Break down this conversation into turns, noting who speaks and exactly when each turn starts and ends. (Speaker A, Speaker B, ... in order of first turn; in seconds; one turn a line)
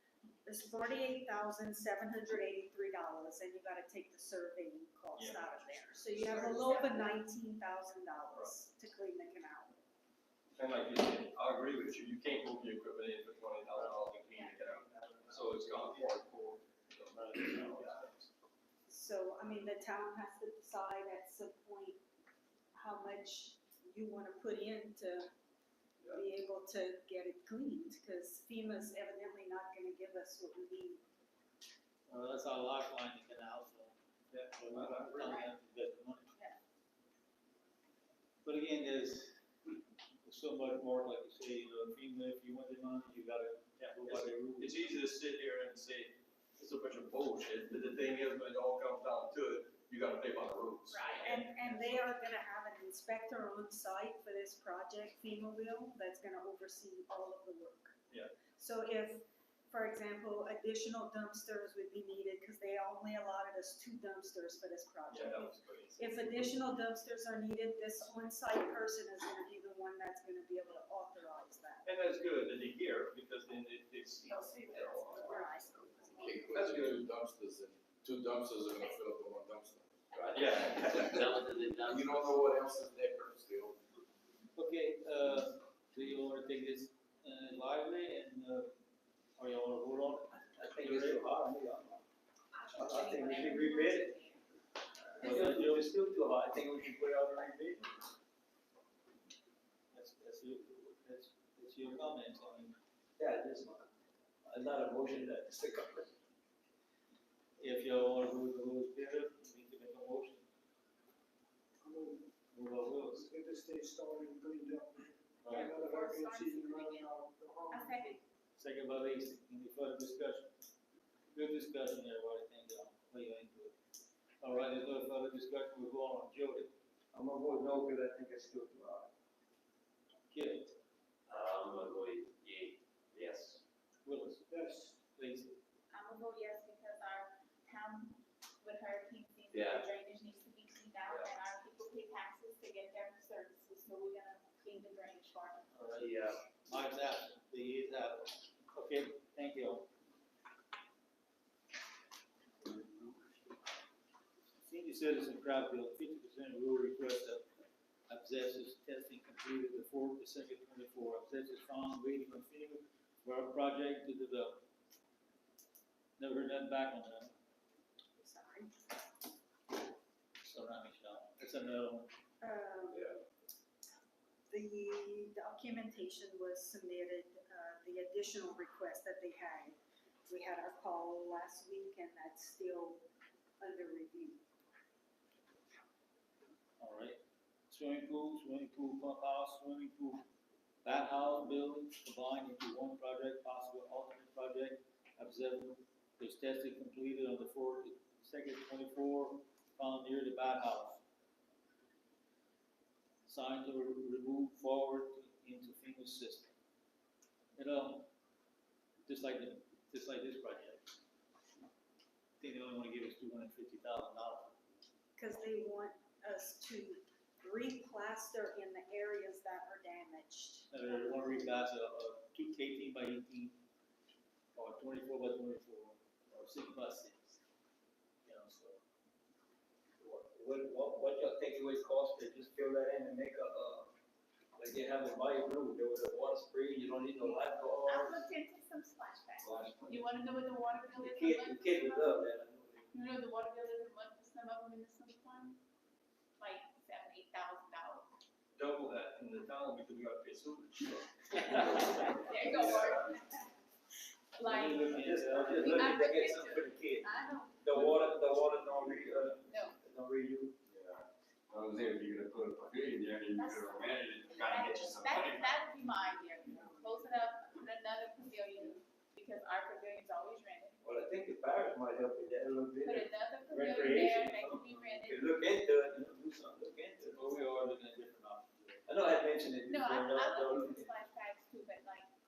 Speaker A: 0.4-9.8
Speaker B: 5.2-5.4
Speaker B: 6.1-6.5
Speaker C: 6.5-6.9
Speaker B: 10.6-18.3
Speaker A: 18.9-22.0
Speaker A: 22.7-25.3
Speaker A: 26.1-31.0
Speaker D: 32.1-36.3
Speaker B: 34.3-35.4
Speaker C: 35.2-35.5
Speaker D: 38.4-39.4
Speaker D: 40.2-44.8
Speaker B: 43.8-51.8
Speaker C: 50.9-51.4
Speaker A: 51.2-58.0
Speaker A: 58.5-71.8
Speaker B: 65.1-66.5
Speaker B: 71.8-75.4
Speaker A: 75.0-76.5
Speaker E: 76.2-79.9
Speaker B: 76.5-77.0
Speaker F: 80.1-82.5
Speaker B: 80.3-81.2
Speaker E: 80.9-81.3
Speaker E: 81.8-83.8
Speaker D: 84.5-88.7
Speaker D: 89.4-91.3
Speaker G: 90.6-92.0
Speaker C: 92.5-94.4
Speaker G: 92.7-94.2
Speaker G: 95.1-98.0
Speaker D: 95.2-95.9
Speaker D: 99.9-102.8
Speaker G: 103.2-103.8
Speaker G: 104.4-106.1
Speaker D: 107.6-110.5
Speaker H: 111.8-112.3
Speaker D: 112.5-113.3
Speaker H: 113.0-118.1
Speaker D: 115.4-115.7
Speaker C: 115.5-117.1
Speaker C: 117.7-118.2
Speaker D: 118.5-120.5
Speaker D: 121.3-123.7
Speaker D: 124.4-126.7
Speaker G: 127.1-129.1
Speaker D: 130.3-130.7
Speaker F: 131.3-133.6
Speaker D: 134.0-134.5
Speaker H: 134.5-135.1
Speaker D: 135.1-135.6
Speaker C: 135.9-145.7
Speaker F: 139.5-139.8
Speaker D: 145.7-149.9
Speaker F: 146.0-146.4
Speaker D: 154.7-157.4
Speaker D: 158.1-164.6
Speaker D: 166.2-167.3
Speaker A: 168.2-168.7
Speaker D: 170.4-172.1
Speaker A: 172.4-173.1
Speaker A: 174.5-183.0
Speaker A: 183.6-184.4
Speaker D: 186.8-190.2
Speaker D: 190.8-201.0
Speaker D: 203.2-206.5
Speaker D: 207.6-208.1
Speaker D: 209.1-211.0
Speaker D: 212.4-214.6
Speaker A: 215.2-220.7
Speaker D: 220.7-223.6
Speaker D: 224.5-227.4
Speaker D: 228.2-228.8
Speaker G: 230.0-233.9
Speaker G: 234.6-238.3
Speaker C: 237.8-242.3
Speaker G: 239.4-239.8
Speaker G: 240.9-242.9
Speaker C: 242.9-245.6
Speaker C: 246.4-248.1
Speaker B: 248.6-251.8
Speaker C: 251.5-253.5
Speaker B: 252.3-253.0
Speaker C: 254.3-257.6
Speaker G: 254.4-257.1
Speaker D: 254.5-255.8
Speaker G: 257.6-260.6
Speaker D: 257.8-258.0
Speaker C: 259.5-259.8
Speaker E: 260.7-265.4
Speaker C: 263.3-270.8
Speaker G: 270.8-277.3
Speaker C: 272.8-275.4
Speaker D: 277.0-278.9
Speaker G: 278.9-280.9
Speaker C: 279.6-282.1